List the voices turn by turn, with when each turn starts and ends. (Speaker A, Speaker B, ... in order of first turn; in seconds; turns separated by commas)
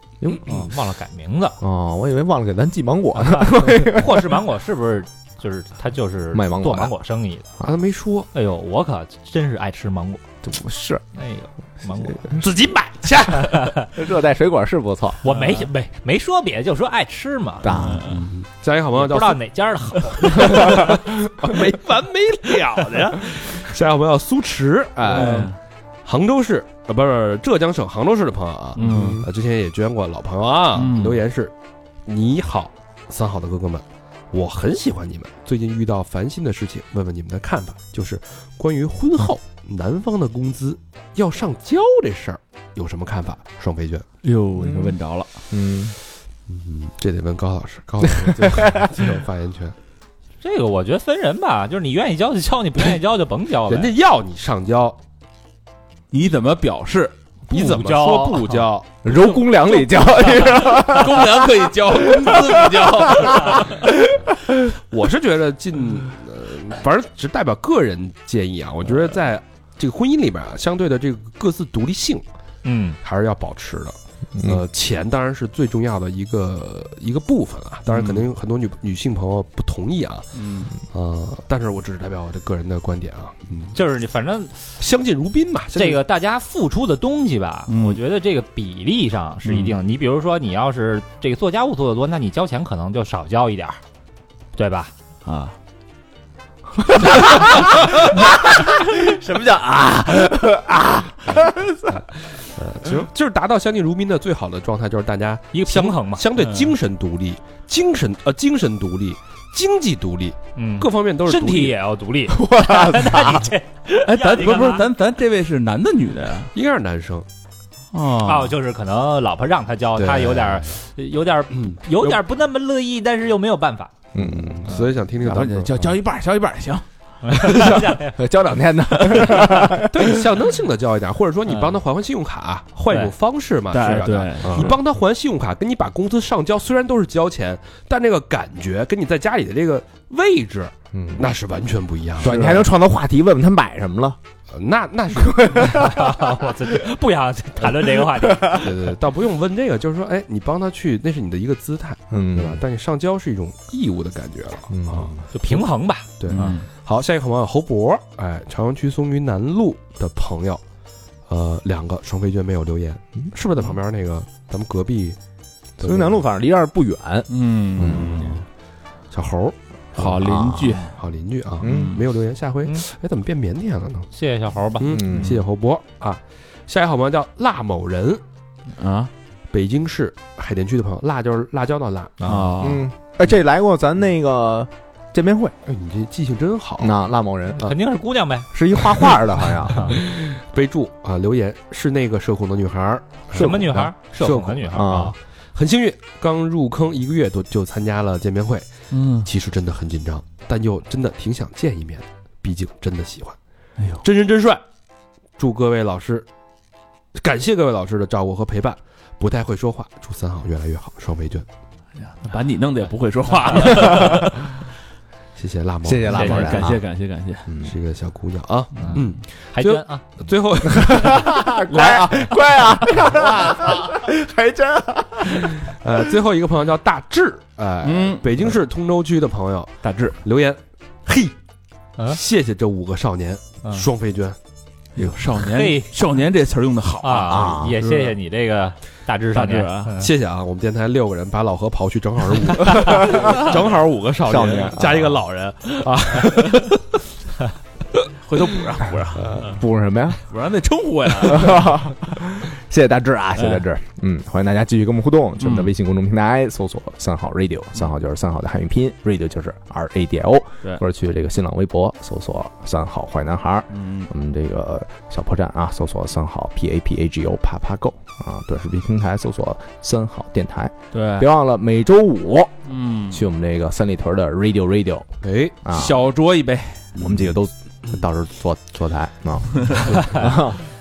Speaker A: 0.2-0.7, Speaker B: 0.4-1.6, Speaker A: 1.6-4.4, Speaker B: 3.2-7.5, Speaker A: 6.3-6.9, Speaker C: 7.6-8.3, Speaker B: 8.3-10.2, Speaker A: 10.4-11.0, Speaker B: 11.1-12.4, Speaker C: 12.4-13.4, Speaker B: 13.2-13.9, Speaker A: 13.9-15.2, Speaker B: 15.2-17.7, Speaker D: 15.3-15.7, Speaker A: 17.6-18.1, Speaker D: 17.7-18.3, Speaker C: 18.1-19.4, Speaker B: 18.9-21.0, Speaker C: 20.3-25.5, Speaker D: 25.0-25.6, Speaker C: 26.0-31.5, Speaker D: 28.8-29.2, Speaker A: 28.8-29.2, Speaker D: 30.7-31.2, Speaker C: 32.0-44.0, Speaker D: 44.2-45.3, Speaker A: 44.6-44.9, Speaker A: 45.5-45.9, Speaker C: 46.5-49.8, Speaker B: 50.4-53.9, Speaker C: 53.7-55.0, Speaker D: 56.1-57.2, Speaker B: 57.5-58.7, Speaker C: 57.5-58.9, Speaker A: 59.0-63.7, Speaker D: 59.8-63.8, Speaker C: 64.6-72.2, Speaker B: 72.6-73.0, Speaker C: 73.0-83.8, Speaker A: 74.3-74.6, Speaker D: 77.9-78.2, Speaker D: 80.3-80.7, Speaker B: 83.7-84.8, Speaker C: 84.8-86.0, Speaker B: 85.7-93.8, Speaker D: 87.7-88.0, Speaker D: 89.5-89.8, Speaker B: 94.5-94.9, Speaker D: 95.2-95.5, Speaker A: 96.9-99.4, Speaker D: 96.9-100.3, Speaker A: 100.1-101.7, Speaker C: 101.2-111.8, Speaker B: 105.5-106.2, Speaker D: 106.4-106.7, Speaker B: 110.5-114.9, Speaker A: 112.3-113.5, Speaker D: 114.0-116.5, Speaker C: 116.5-117.2, Speaker D: 117.9-118.5, Speaker B: 118.2-123.9, Speaker C: 120.0-120.7, Speaker C: 121.5-122.2, Speaker A: 124.1-124.7, Speaker C: 124.2-126.0, Speaker D: 125.2-127.6, Speaker B: 127.2-128.2, Speaker C: 127.5-128.0, Speaker A: 127.7-130.2, Speaker B: 129.1-129.7, Speaker C: 129.9-142.6, Speaker D: 131.5-131.8, Speaker D: 133.7-134.8, Speaker A: 140.9-141.3, Speaker A: 142.2-144.2, Speaker D: 142.2-142.7, Speaker C: 144.5-145.9, Speaker A: 145.2-145.9, Speaker B: 145.6-148.7, Speaker A: 148.3-148.6, Speaker C: 148.5-155.6, Speaker A: 152.1-152.6, Speaker A: 154.7-155.2, Speaker B: 155.3-156.1, Speaker C: 156.2-160.6, Speaker D: 156.3-156.7, Speaker C: 161.3-165.2, Speaker C: 165.8-166.2, Speaker A: 165.8-168.4, Speaker D: 167.3-168.4, Speaker C: 168.0-168.3, Speaker C: 169.1-170.2, Speaker D: 170.0-170.9, Speaker A: 170.2-170.8, Speaker C: 170.9-174.1, Speaker A: 171.6-171.9, Speaker D: 171.6-172.1, Speaker B: 174.1-174.9, Speaker C: 174.8-178.2, Speaker A: 174.8-175.4, Speaker D: 178.7-179.1, Speaker C: 179.5-182.2, Speaker B: 182.2-182.5, Speaker D: 182.2-182.9, Speaker A: 182.6-185.6, Speaker C: 185.7-186.9, Speaker A: 186.8-187.8, Speaker B: 187.5-188.5, Speaker A: 188.5-190.0, Speaker C: 189.8-195.0, Speaker B: 193.3-195.2, Speaker A: 193.3-193.9, Speaker A: 194.7-195.1, Speaker C: 195.5-203.4, Speaker D: 198.9-199.3, Speaker D: 203.8-204.0, Speaker C: 204.0-204.6, Speaker C: 205.4-206.3, Speaker C: 207.1-211.4, Speaker D: 212.0-214.5, Speaker B: 213.5-214.2, Speaker C: 215.4-216.8, Speaker A: 215.8-216.8, Speaker D: 216.1-217.5, Speaker A: 217.5-217.7, Speaker C: 217.6-222.4, Speaker B: 218.8-219.0, Speaker B: 219.5-220.0, Speaker A: 220.7-226.1, Speaker C: 223.3-223.9, Speaker C: 225.6-231.3, Speaker D: 227.8-228.4, Speaker D: 229.8-230.2, Speaker C: 232.1-234.4, Speaker D: 234.9-238.1, Speaker B: 235.5-235.9, Speaker B: 237.0-240.1, Speaker A: 237.3-237.8, Speaker D: 239.3-239.9, Speaker C: 240.0-246.8, Speaker D: 243.1-243.5, Speaker A: 244.2-245.2, Speaker D: 248.2-249.5, Speaker C: 249.2-249.6, Speaker A: 249.3-250.2, Speaker D: 250.3-251.8, Speaker A: 251.2-272.5, Speaker D: 253.4-253.6, Speaker D: 255.4-255.7, Speaker D: 263.7-264.1, Speaker D: 270.9-271.3, Speaker D: 272.6-273.2, Speaker A: 273.1-275.1, Speaker C: 275.2-275.6, Speaker A: 275.6-275.9, Speaker D: 275.7-276.9, Speaker C: 276.9-277.2, Speaker A: 277.0-280.6, Speaker C: 280.0-280.4